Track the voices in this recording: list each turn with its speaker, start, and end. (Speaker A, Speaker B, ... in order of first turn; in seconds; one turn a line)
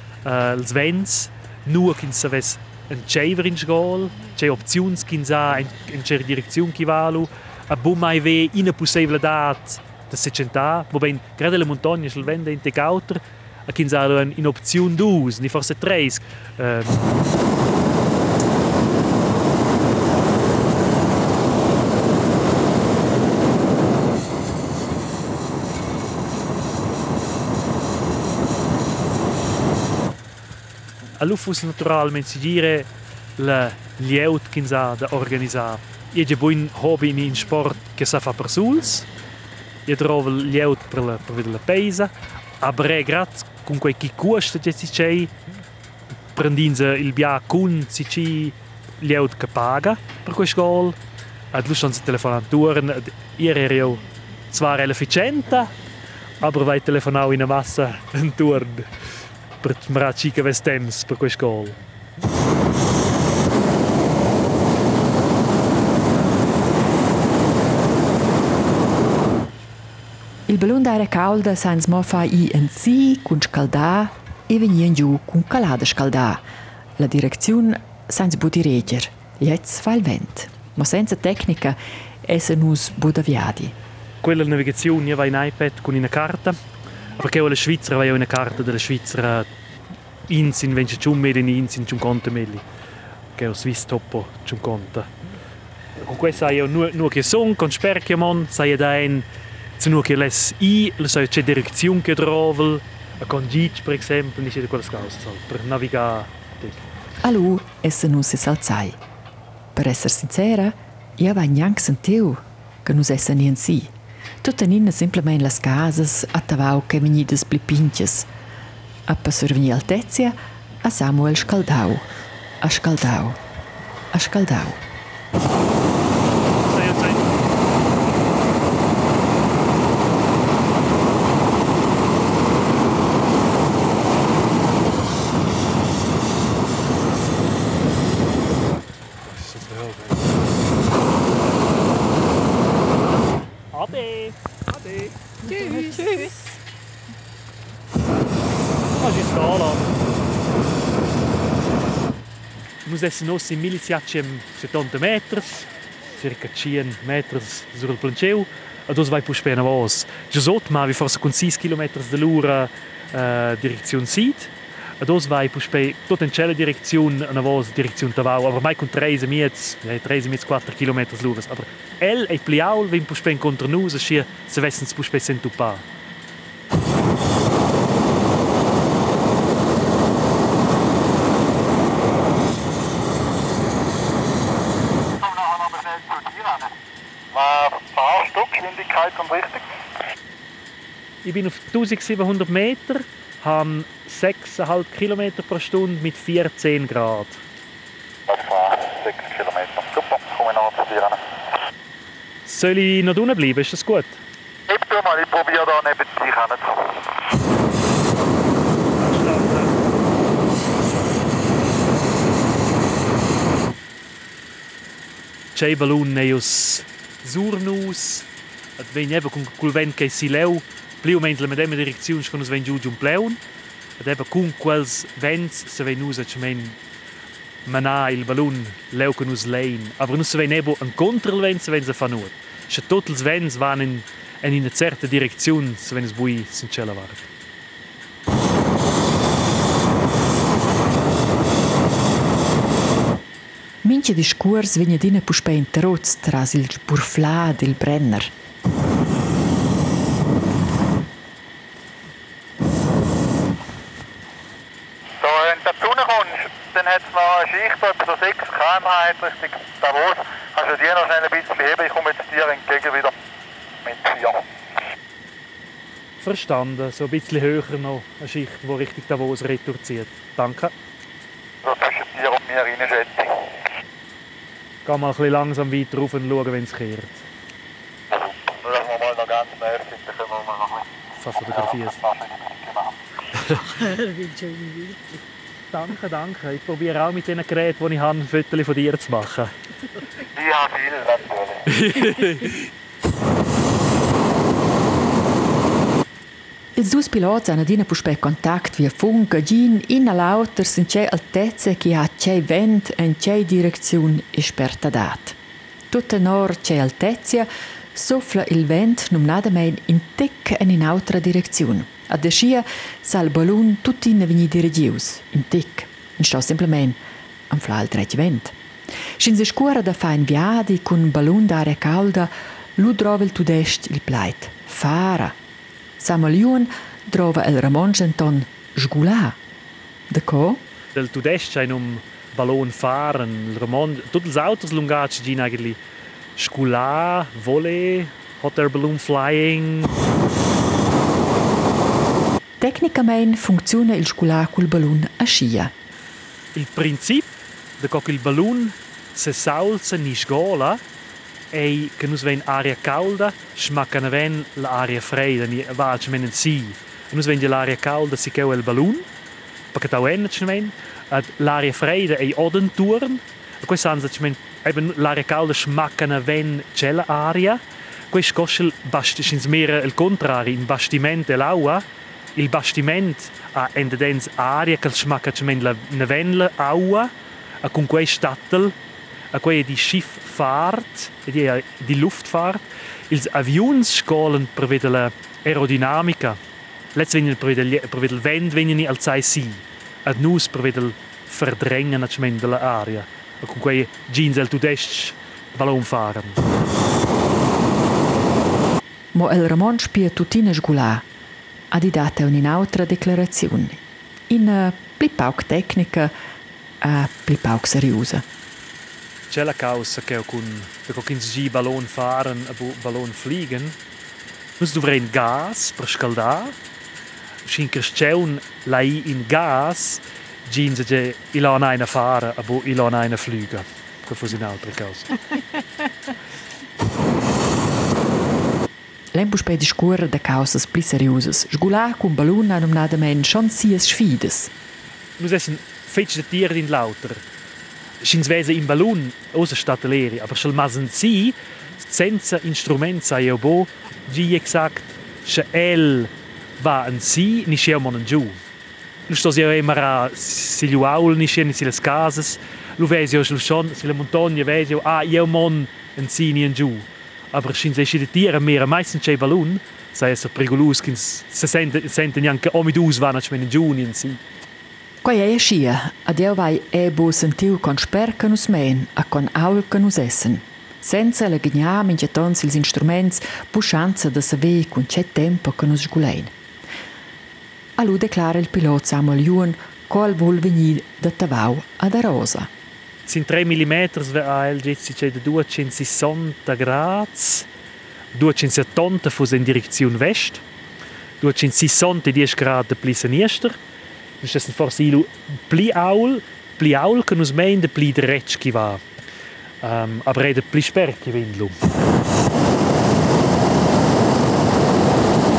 Speaker A: 0.2-17.1
Speaker A: 31.1-39.1
Speaker A: 39.9-45.3
Speaker A: 46.3-51.0
Speaker A: 51.5-55.7
Speaker A: 56.4-58.9
Speaker A: 59.6-61.8
Speaker B: 70.5-76.4
Speaker B: 77.0-83.8
Speaker A: 84.2-86.6
Speaker A: 87.2-89.5
Speaker A: 90.3-92.6
Speaker A: 93.3-95.1
Speaker A: 96.0-99.3
Speaker A: 99.8-106.9
Speaker B: 107.2-109.0
Speaker B: 109.8-118.3
Speaker B: 119.1-122.1
Speaker B: 122.6-123.4
Speaker B: 124.1-124.8
Speaker A: 126.6-127.4
Speaker A: 139.2-140.4
Speaker A: 143.7-144.4
Speaker A: 145.5-146.4
Speaker A: 149.0-149.9
Speaker A: 152.8-175.8
Speaker C: 185.2-186.7
Speaker C: 187.3-189.7
Speaker A: 191.2-197.4
Speaker C: 198.3-201.2
Speaker A: 202.5-204.2
Speaker C: 204.7-206.9
Speaker A: 209.0-209.8
Speaker A: 215.6-218.3
Speaker A: 218.8-223.4
Speaker A: 224.0-226.8
Speaker A: 227.7-237.3
Speaker B: 243.8-248.3
Speaker C: 255.2-263.1
Speaker C: 263.8-264.4
Speaker A: 266.2-270.7
Speaker C: 271.6-273.5
Speaker A: 274.9-277.2
Speaker C: 278.1-280.9
Speaker A: 281.2-282.0
Speaker C: 281.5-283.0
Speaker A: 283.4-284.9
Speaker A: 285.7-289.5
Speaker C: 290.3-291.7
Speaker A: 291.7-292.7
Speaker B: 296.8-305.4
Speaker B: 305.9-317.0
Speaker B: 317.5-318.6
Speaker B: 319.2-325.4
Speaker B: 326.0-329.4
Speaker B: 330.1-330.6
Speaker A: 330.9-335.8
Speaker A: 336.4-339.9
Speaker B: 342.6-345.7
Speaker A: 346.6-350.8
Speaker A: 351.5-359.1
Speaker A: 359.7-367.6
Speaker A: 368.1-371.8
Speaker A: 372.4-377.1
Speaker A: 377.6-378.8
Speaker A: 379.3-386.4
Speaker A: 386.9-396.4
Speaker B: 399.1-401.1
Speaker B: 401.7-406.1
Speaker B: 406.8-408.2
Speaker A: 409.3-413.8
Speaker A: 414.6-416.6
Speaker A: 417.4-425.2
Speaker B: 429.1-434.5
Speaker A: 435.2-437.2
Speaker A: 438.0-448.4
Speaker A: 449.1-464.2
Speaker B: 465.0-476.3
Speaker B: 477.8-482.5
Speaker A: 483.1-487.5
Speaker A: 488.1-490.4
Speaker A: 491.2-493.6
Speaker A: 494.2-498.8
Speaker A: 499.6-501.6